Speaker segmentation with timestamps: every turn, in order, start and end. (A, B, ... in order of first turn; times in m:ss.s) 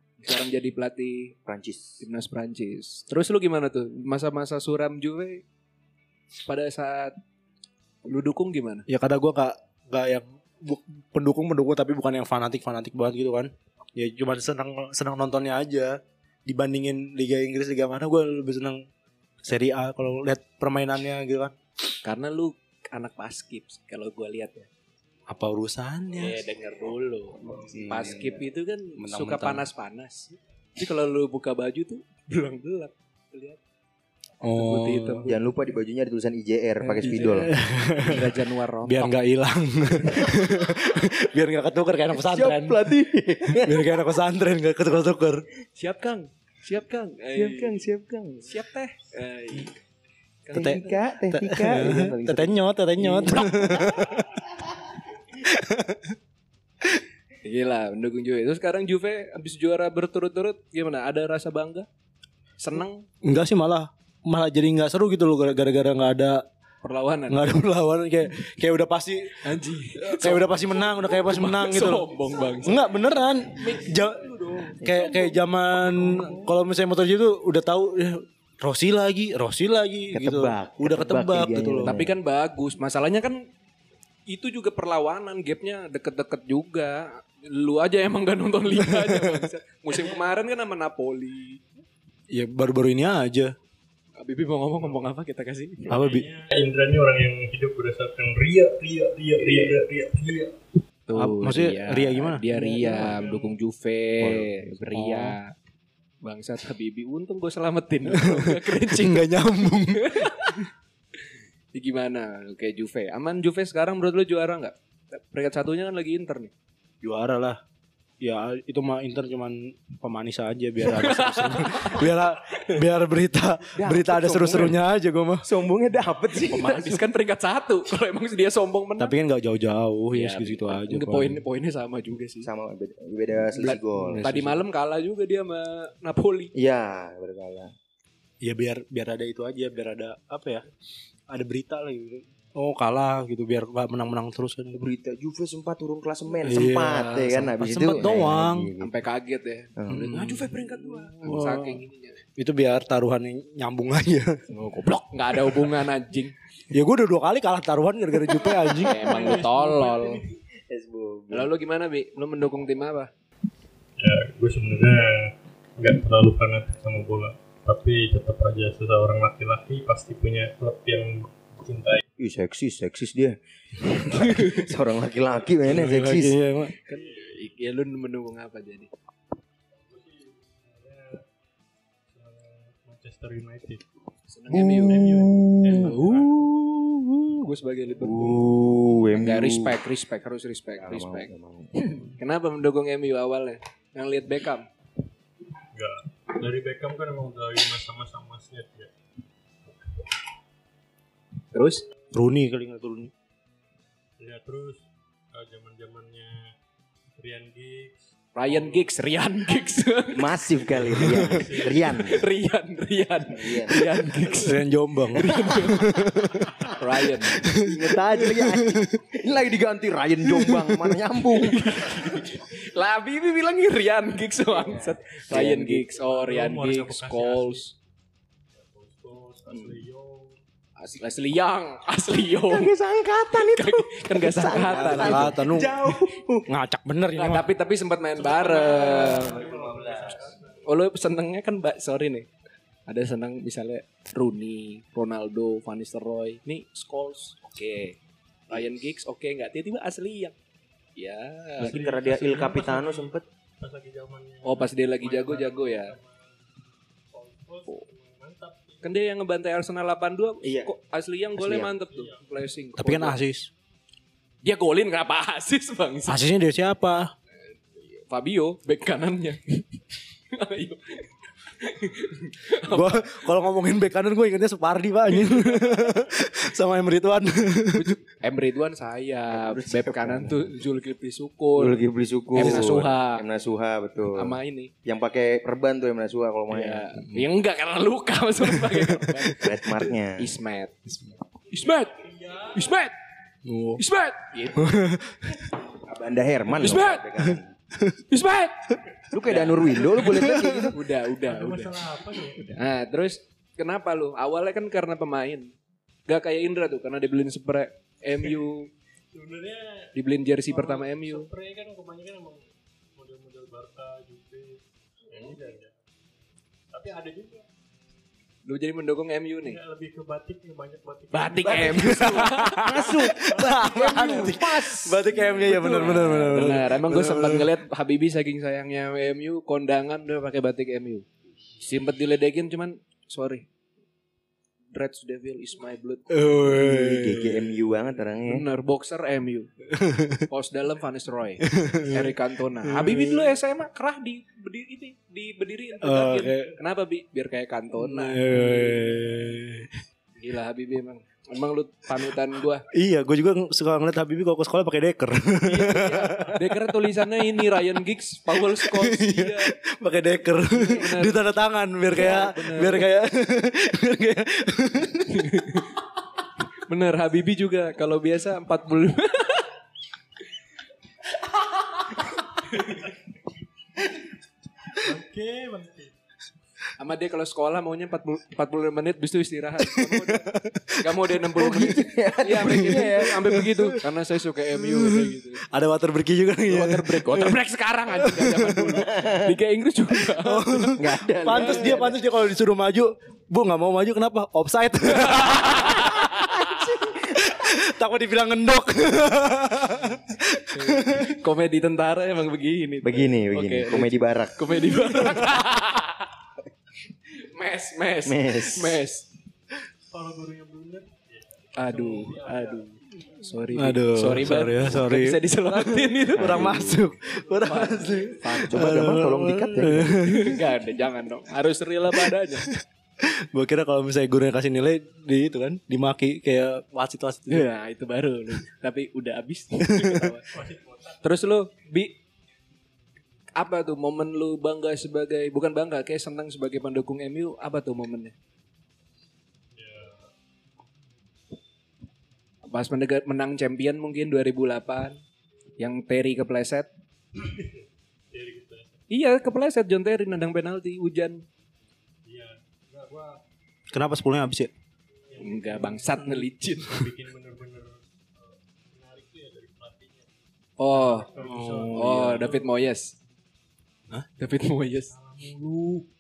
0:00.2-0:01.4 A
0:01.5-0:02.0 B
0:02.0-0:05.4 A
0:06.4-0:07.2 A
0:08.0-0:08.9 A
0:08.9-0:18.9 C
0:19.4-0:21.5 C
0:22.0-0:24.7 A
0:25.3-0:26.4 C
0:26.2-0:33.6 A
0:27.4-0:28.4 B
0:29.0-0:29.6 C
0:34.4-0:35.3 C
0:34.5-0:35.4 A
0:35.3-0:37.5 B
0:36.8-0:39.1 A
0:37.0-0:42.9 C
0:42.2-0:44.0 B
0:43.5-0:45.5 C
0:45.8-0:47.8 A
0:47.4-0:48.5 B
0:48.4-0:49.8 A
0:50.4-0:51.0 A
0:50.5-0:52.6 B
0:50.6-0:54.5 C
0:53.0-0:54.2 A
0:55.4-0:56.1 C
0:57.4-1:01.9 A
1:02.6-1:03.1 A
1:03.2-1:06.5 C
1:06.8-1:07.5 A
1:07.3-1:09.4 C
1:09.4-1:12.9 A
1:10.0-1:22.0 C
1:13.5-1:15.4 A
1:20.1-1:22.2 B
1:21.8-1:23.5 A
1:24.3-1:31.7 A
1:28.7-1:29.4 C
1:29.9-1:30.3 D
1:32.3-1:33.6 C
1:34.2-1:36.0 A
1:35.9-1:36.3 C
1:35.9-1:40.6 D
1:41.1-1:45.5 A
1:41.1-1:42.4 C
1:42.5-1:43.1 B
1:42.8-1:43.6 D
1:44.2-1:45.4 C
1:46.2-1:50.7 A
1:48.1-1:50.6 C
1:51.7-1:56.5 A
1:57.0-1:57.6 C
1:58.2-2:05.4 C
2:00.8-2:02.8 A
2:03.8-2:04.8 B
2:05.4-2:07.0 B
2:06.5-2:09.1 A
2:09.0-2:11.4 C
2:10.1-2:12.5 A
2:12.4-2:14.3 B
2:13.6-2:16.5 A
2:13.7-2:14.6 C
2:16.6-2:17.7 B
2:18.4-2:20.6 C
2:21.3-2:24.8 C
2:24.7-2:29.0 B
2:26.4-2:28.7 C
2:28.8-2:32.2 A
2:29.8-2:31.4 B
2:29.9-2:30.5 C
2:31.2-2:31.8 C
2:32.4-2:34.4 C
2:34.5-2:36.4 A
2:36.7-2:39.1 C
2:38.8-2:40.2 A
2:38.9-2:40.4 D
2:40.7-2:41.5 B
2:41.3-2:43.1 A
2:44.0-2:52.0 D
2:52.2-2:56.4 B
2:54.1-2:54.6 A
2:55.6-2:56.8 C
2:56.7-2:58.9 A
2:56.9-2:57.4 D
2:59.9-3:01.2 D
3:02.1-3:03.8 D
3:04.3-3:05.1 A
3:04.5-3:06.0 B
3:04.7-3:06.5 D
3:05.7-3:08.5 A
3:08.0-3:09.8 B
3:09.1-3:14.7 A
3:10.8-3:12.1 B
3:15.7-3:18.9 D
3:21.5-3:21.8 A
3:22.1-3:23.1 C
3:24.2-3:26.5 D
3:27.2-3:28.8 D
3:28.4-3:30.4 A
3:30.1-3:32.2 B
3:30.8-3:31.4 C
3:31.3-3:32.0 D
3:31.6-3:37.5 A
3:33.3-3:33.8 B
3:34.2-3:38.9 C
3:37.5-3:42.0 B
3:41.2-3:47.7 A
3:44.6-3:45.8 B
3:46.0-3:47.6 D
3:48.6-3:50.4 D
3:50.8-3:52.7 A
3:52.5-3:56.5 B
3:53.3-3:55.4 A
3:54.5-3:55.9 C
3:56.5-3:57.5 C
3:57.2-3:59.4 A
3:58.2-4:00.6 D
3:58.4-4:00.4 B
4:00.6-4:02.3 A
4:02.9-4:08.0 A
4:08.5-4:10.4 A
4:11.0-4:11.8 A
4:11.6-4:16.4 D
4:11.6-4:13.2 B
4:14.4-4:16.0 A
4:17.1-4:18.8 D
4:18.8-4:23.2 A
4:20.4-4:20.7 B
4:21.4-4:21.7 B
4:21.8-4:22.3 D
4:22.8-4:23.5 C
4:24.4-4:26.2 A
4:26.1-4:27.1 C
4:27.8-4:33.4 A
4:32.7-4:38.0 C
4:35.1-4:35.9 A
4:37.7-4:41.8 A
4:39.3-4:40.5 B
4:41.6-4:46.9 B
4:42.3-4:43.2 A
4:42.4-4:42.8 C
4:44.1-4:44.7 A
4:46.5-4:50.8 A
4:48.4-4:49.4 C
4:49.4-4:50.3 B
4:51.5-4:53.0 A
4:51.8-4:52.7 D
4:53.4-4:53.8 C
4:53.8-4:54.8 A
4:54.5-4:55.4 C
4:55.8-4:57.5 B
4:56.5-4:57.0 A
4:57.2-4:58.0 C
4:58.1-5:05.5 A
4:59.1-5:00.8 B
5:00.1-5:00.7 C
5:01.2-5:02.6 D
5:06.1-5:08.7 A
5:09.1-5:09.9 D
5:10.0-5:11.3 A
5:10.5-5:15.7 D
5:16.7-5:17.5 D
5:18.5-5:19.6 A
5:19.4-5:22.3 D
5:21.1-5:22.9 A
5:21.4-5:25.1 B
5:21.8-5:27.6 C
5:23.4-5:24.3 D
5:25.1-5:31.1 A
5:31.6-5:33.5 A
5:34.7-5:36.1 A
5:36.1-5:37.6 C
5:36.4-5:38.4 B
5:38.3-5:39.5 A
5:39.7-5:40.3 C
5:40.3-5:49.3 A
5:41.4-5:43.3 C
5:45.8-5:46.6 C
5:47.8-5:49.8 C
5:50.2-5:52.7 A
5:52.7-5:57.5 C
5:55.4-5:59.6 A
5:58.4-6:05.6 C
6:00.5-6:01.2 A
6:01.9-6:02.9 A
6:05.1-6:05.8 A
6:06.7-6:09.5 A
6:12.4-6:12.9 A
6:14.7-6:15.9 D
6:16.8-6:25.5 A
6:19.6-6:20.9 C
6:21.4-6:23.4 B
6:22.6-6:23.8 C
6:24.6-6:28.8 C
6:26.5-6:30.8 A
6:28.7-6:29.4 B
6:30.0-6:41.2 C
6:30.8-6:32.0 B
6:31.3-6:31.8 A
6:35.0-6:36.3 A
6:36.2-6:37.2 B
6:40.5-6:46.1 A
6:42.8-6:44.4 B
6:47.1-6:49.1 A
6:48.1-6:48.8 B
6:49.9-6:53.2 D
6:51.6-6:56.6 A
6:53.5-7:00.4 C
6:56.2-6:56.9 B
6:57.4-6:58.7 A
6:58.3-7:00.2 B
6:59.9-7:02.5 A
7:01.9-7:07.5 C
7:07.3-7:10.3 A
7:09.6-7:10.1 C
7:10.3-7:11.0 D
7:11.0-7:12.0 A
7:13.4-7:18.2 A
7:19.6-7:20.1 D
7:22.5-7:25.0 A
7:25.6-7:26.7 A
7:27.2-7:28.8 D
7:28.9-7:31.2 A
7:32.0-7:33.2 D
7:33.7-7:34.5 C
7:35.1-7:40.1 D
7:35.2-7:36.8 A
7:40.6-7:41.1 A
7:40.7-7:42.6 D
7:41.2-7:42.3 C
7:41.7-7:43.0 A
7:44.2-7:44.9 A
7:44.9-7:45.9 D